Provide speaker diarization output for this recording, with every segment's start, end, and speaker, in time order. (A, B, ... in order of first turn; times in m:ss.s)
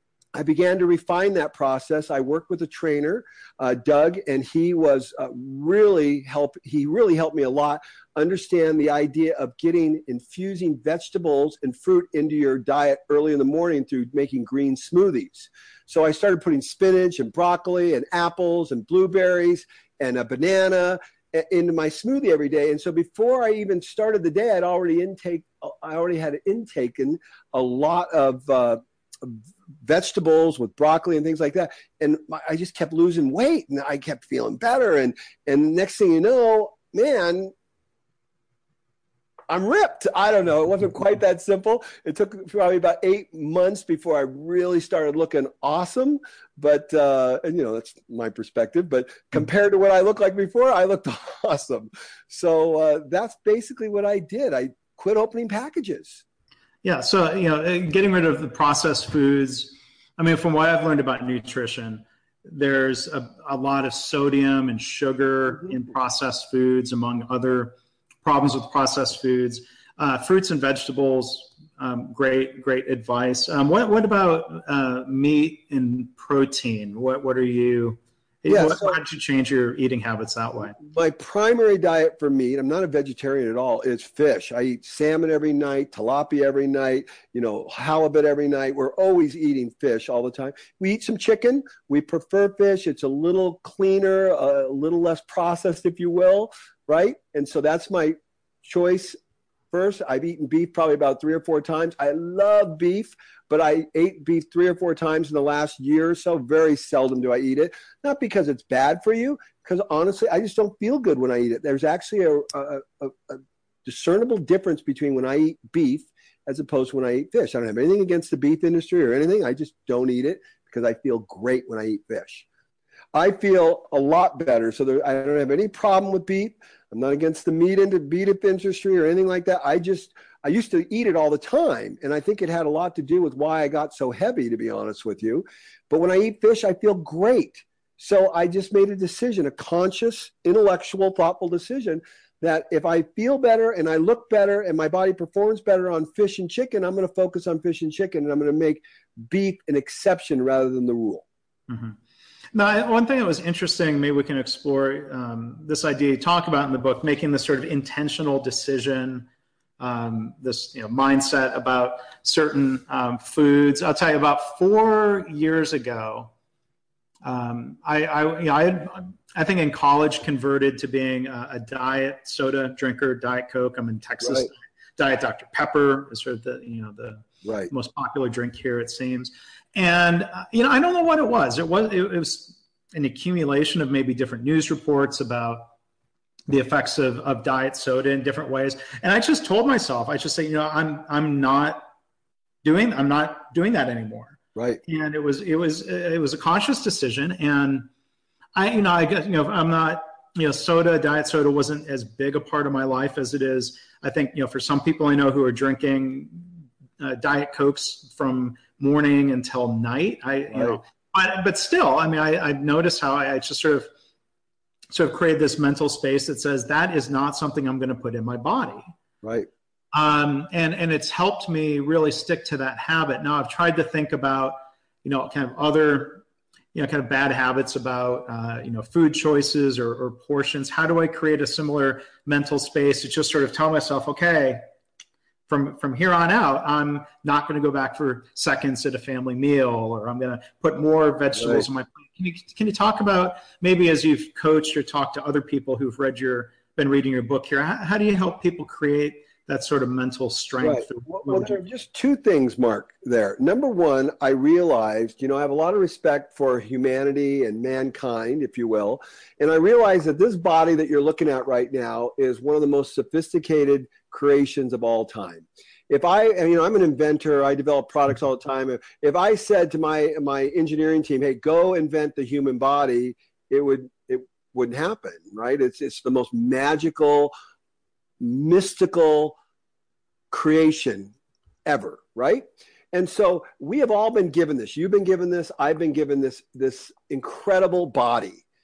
0:00.3-0:37.5 A
0:39.5-0:56.2 A
0:56.8-1:20.8 B
1:18.4-1:19.0 A
1:20.8-1:39.2 A
1:39.7-2:02.4 A
2:03.1-2:31.2 A
2:31.7-2:32.0 B
2:32.5-2:39.3 B
2:39.8-2:46.3 B
2:47.2-3:05.7 B
2:54.2-2:54.5 A
2:57.4-2:57.7 A
3:06.5-3:11.8 B
3:12.6-3:17.9 B
3:18.5-3:33.9 B
3:30.5-3:30.8 A
3:34.9-3:38.9 B
3:39.2-3:39.5 A
3:39.9-3:54.6 B
3:55.5-4:11.6 B
4:01.4-4:01.6 A
4:10.6-4:37.3 A
4:38.2-4:39.4 A
4:40.3-4:41.1 A
4:41.6-4:48.4 A